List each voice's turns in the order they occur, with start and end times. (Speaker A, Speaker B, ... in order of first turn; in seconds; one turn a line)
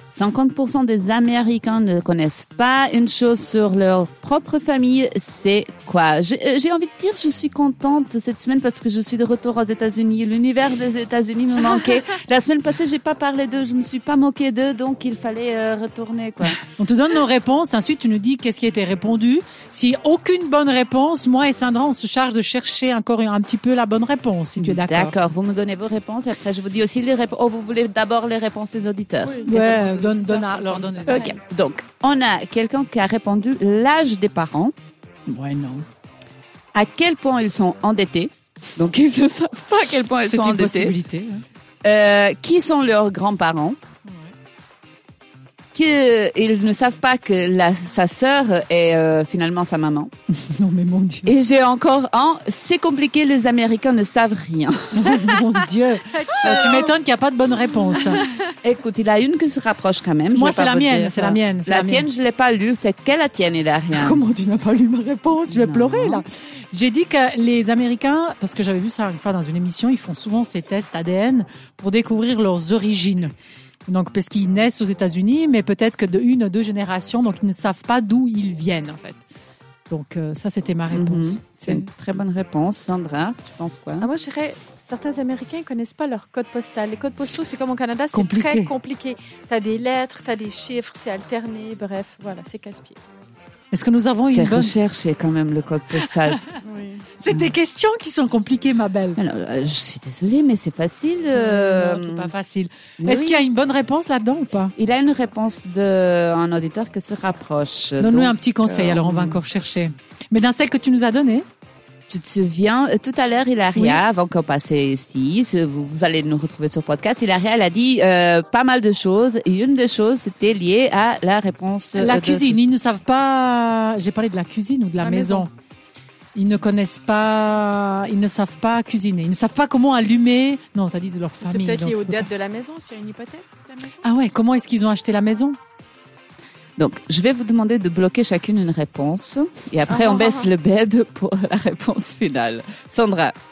Speaker A: 0.1-16.6
Speaker B: 16.6-25.1
Speaker A: 24.6-29.5
Speaker C: 29.2-31.4
Speaker B: 29.5-31.3
Speaker A: 31.1-34.7
Speaker B: 35.3-35.9
Speaker A: 36.7-41.0
Speaker B: 40.2-41.4
Speaker A: 41.8-43.8
Speaker A: 45.7-50.1
Speaker B: 50.3-51.3
Speaker A: 51.3-55.2
Speaker B: 54.9-58.2
Speaker C: 56.1-57.0
Speaker C: 58.0-58.4
Speaker A: 58.6-64.2
Speaker B: 60.3-62.1
Speaker B: 63.9-73.3
Speaker A: 65.5-66.2
Speaker B: 73.9-79.2
Speaker B: 79.9-81.8
Speaker A: 80.9-84.1
Speaker C: 84.0-93.0
Speaker B: 88.1-88.7
Speaker B: 93.7-94.7
Speaker A: 94.3-96.4
Speaker C: 96.6-97.1
Speaker B: 97.2-99.2
Speaker A: 97.3-97.5
Speaker A: 99.2-102.3
Speaker B: 101.3-104.7
Speaker A: 103.0-103.5
Speaker A: 104.8-109.4
Speaker B: 108.0-111.5
Speaker A: 112.1-122.7
Speaker B: 113.8-114.0
Speaker B: 122.0-125.5
Speaker C: 125.0-125.5
Speaker B: 126.3-132.3
Speaker C: 131.4-134.1
Speaker B: 134.0-135.6
Speaker A: 136.8-143.3
Speaker C: 139.9-140.5